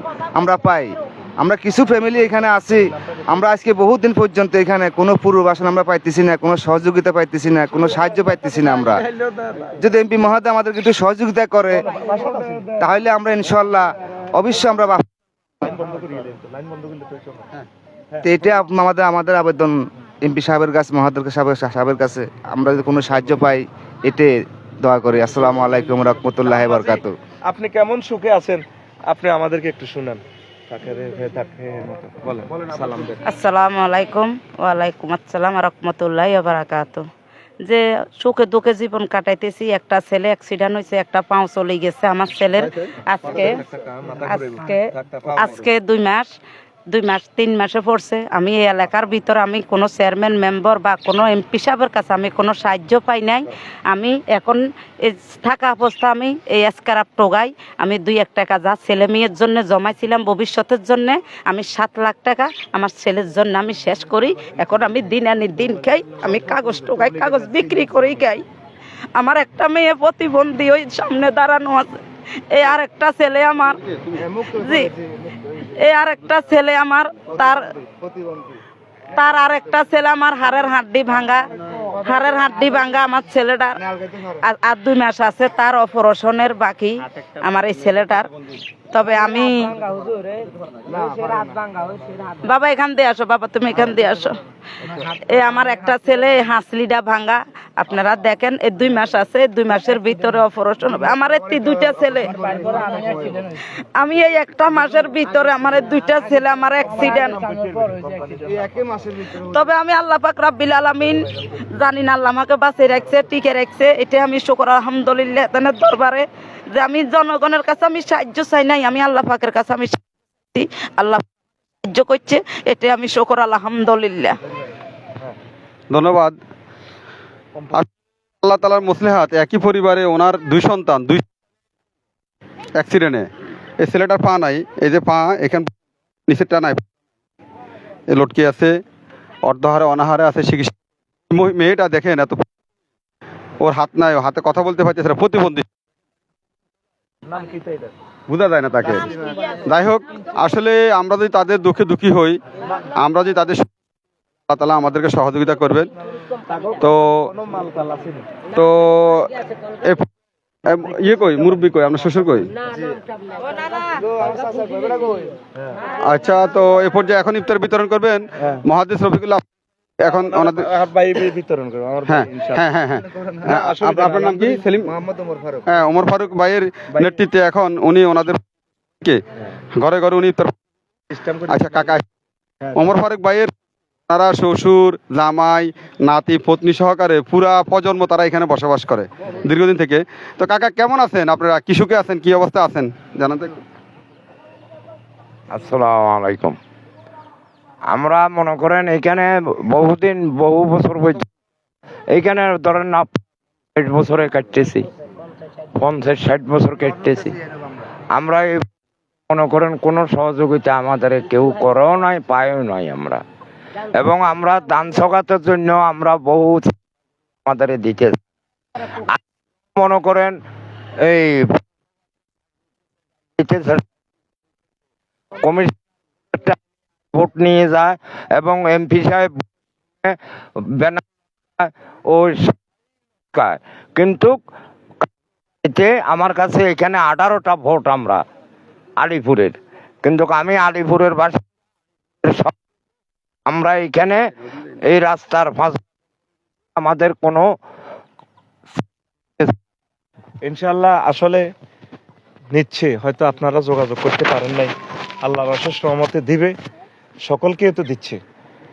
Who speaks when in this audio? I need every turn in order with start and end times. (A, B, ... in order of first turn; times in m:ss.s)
0:00.3-0:09.1 A
0:09.6-0:11.8 A
0:11.9-0:12.7 B
0:12.7-0:15.0 A
0:15.6-0:17.5 B
0:18.2-0:27.2 A
0:26.6-0:33.2 B
0:33.2-0:37.0 C
0:37.6-0:43.6 C
0:43.8-0:45.6 B
0:44.3-0:46.3 C
0:46.9-1:08.4 C
1:09.2-1:11.9 C
1:12.5-1:13.8 C
1:13.8-1:14.2 D
1:14.4-1:14.9 C
1:15.6-1:17.6 C
1:17.5-1:18.6 A
1:19.1-1:21.5 C
1:22.0-1:23.8 C
1:23.8-1:24.4 A
1:24.4-1:28.3 C
1:28.9-1:29.8 C
1:30.9-1:31.7 A
1:32.4-1:34.4 C
1:35.3-1:43.1 C
1:42.0-1:43.4 A
1:44.0-1:47.6 C
1:48.4-1:49.4 A
1:49.4-2:00.0 C
2:00.5-2:01.2 C
2:01.8-2:04.4 C
2:05.9-2:06.4 D
2:08.4-2:11.2 D
2:12.8-2:13.3 D
2:13.8-2:15.7 D
2:16.3-2:16.8 D
2:18.1-2:18.7 D
2:19.4-2:20.7 D
2:21.3-2:22.4 D
2:23.6-2:25.6 D
2:27.3-2:27.9 B
2:28.3-2:29.1 D
2:29.6-2:32.4 D
2:32.9-2:33.7 D
2:34.5-2:35.9 D
2:36.5-2:38.2 B
2:36.8-2:37.3 D
2:38.5-2:39.3 D
2:39.8-2:40.1 D
2:40.7-2:42.5 D
2:42.7-2:43.0 A
2:44.0-2:45.3 A
2:46.1-2:49.4 D
2:50.0-2:50.7 D
2:50.1-2:52.6 B
2:52.1-2:54.9 D
2:53.1-2:53.5 A
2:53.5-2:54.6 B
2:54.8-2:55.7 A
2:55.7-2:58.4 D
2:59.8-3:00.5 D
3:01.4-3:02.0 D
3:02.7-3:03.5 D
3:04.1-3:13.6 D
3:15.5-3:16.5 E
3:17.9-3:21.2 E
3:22.2-3:23.1 E
3:23.8-3:24.8 E
3:25.8-3:27.3 E
3:28.2-3:28.4 E
3:29.3-3:33.2 E
3:33.9-3:36.7 E
3:37.5-3:38.1 E
3:39.8-3:40.3 E
3:41.0-3:41.4 E
3:43.4-3:43.8 E
3:45.4-3:45.7 E
3:47.2-3:49.3 E
3:51.6-3:52.5 E
3:53.3-3:54.3 E
3:55.7-3:58.2 E
3:59.0-3:59.5 E
4:00.0-4:01.3 E
4:03.5-4:04.1 E
4:04.9-4:05.7 E
4:06.8-4:07.4 E
4:10.4-4:11.5 B
4:12.5-4:16.5 B
4:17.2-4:18.2 B